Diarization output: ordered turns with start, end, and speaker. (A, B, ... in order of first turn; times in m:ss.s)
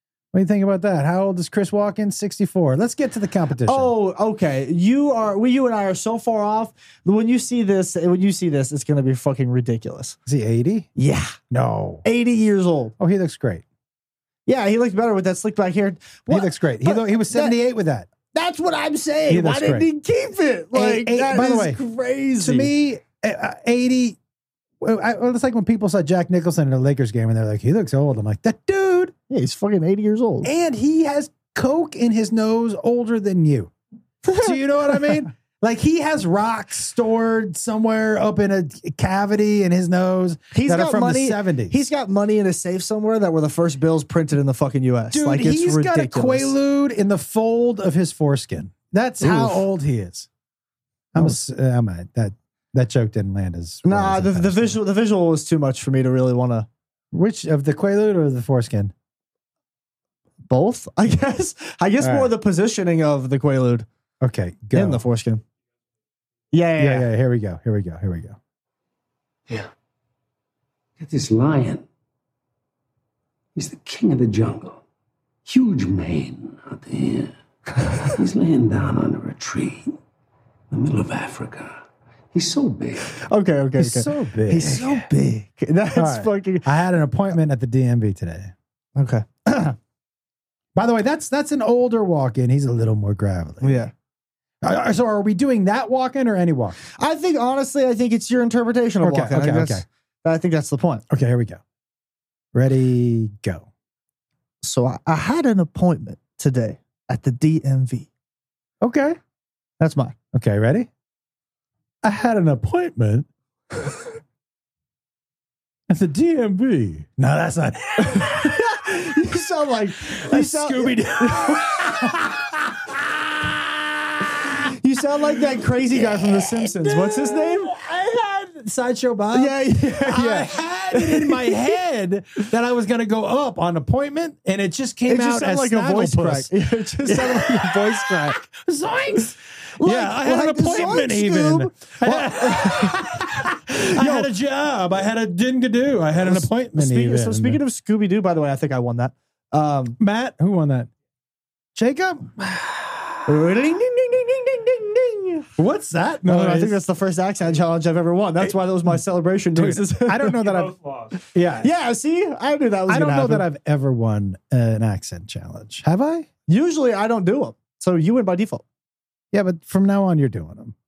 0:00.3-0:03.9 A
0:03.6-0:10.2 B
0:10.3-0:10.9 A
0:11.0-0:11.4 B
0:11.5-0:12.0 A
0:12.0-0:12.9 B
0:13.0-0:13.6 A
0:14.5-0:17.6 B
0:16.3-0:18.1 A
0:18.3-0:22.7 B
0:19.3-0:19.9 A
0:20.7-0:21.8 A
0:22.4-0:24.2 A
0:24.8-0:29.1 A
0:29.3-0:30.5 B
0:30.4-0:33.7 A
0:34.2-0:35.2 B
0:34.4-0:41.8 A
0:40.5-0:46.5 B
0:45.1-0:50.3 A
0:49.2-0:49.6 B
0:51.1-0:54.8 A
0:53.8-0:56.7 B
0:57.1-0:58.9 A
1:00.5-1:03.9 B
1:02.0-1:02.3 A
1:04.2-1:05.0 A
1:04.7-1:05.4 B
1:06.5-1:07.1 B
1:06.8-1:08.4 A
1:11.0-1:11.8 C
1:13.6-1:14.8 C
1:15.5-1:19.9 C
1:20.7-1:21.8 C
1:22.3-1:23.1 C
1:23.1-1:26.6 B
1:23.8-1:25.1 A
1:26.0-1:28.5 A
1:29.0-1:29.8 B
1:30.8-1:33.8 A
1:33.6-1:33.9 B
1:34.6-1:36.8 A
1:37.0-1:41.0 B
1:39.0-1:39.8 A
1:41.1-1:41.6 A
1:42.5-1:43.7 A
1:44.6-1:48.1 B
1:48.8-1:49.2 A
1:49.8-1:50.2 B
1:50.3-1:50.9 A
1:52.0-1:53.3 A
1:55.9-1:58.8 A
1:58.0-2:01.9 B
2:00.0-2:04.5 A
2:04.5-2:07.7 B
2:05.4-2:16.5 A
2:09.3-2:11.7 B
2:15.1-2:18.4 B
2:17.0-2:27.6 A
2:19.8-2:24.3 B
2:26.2-2:30.0 B
2:30.0-2:30.9 A
2:31.8-2:33.2 A
2:33.3-2:35.5 B
2:35.6-2:36.8 A
2:36.3-2:43.5 B
2:39.6-2:41.7 A
2:42.9-2:46.3 A
2:46.5-2:48.6 B
2:49.3-2:50.7 A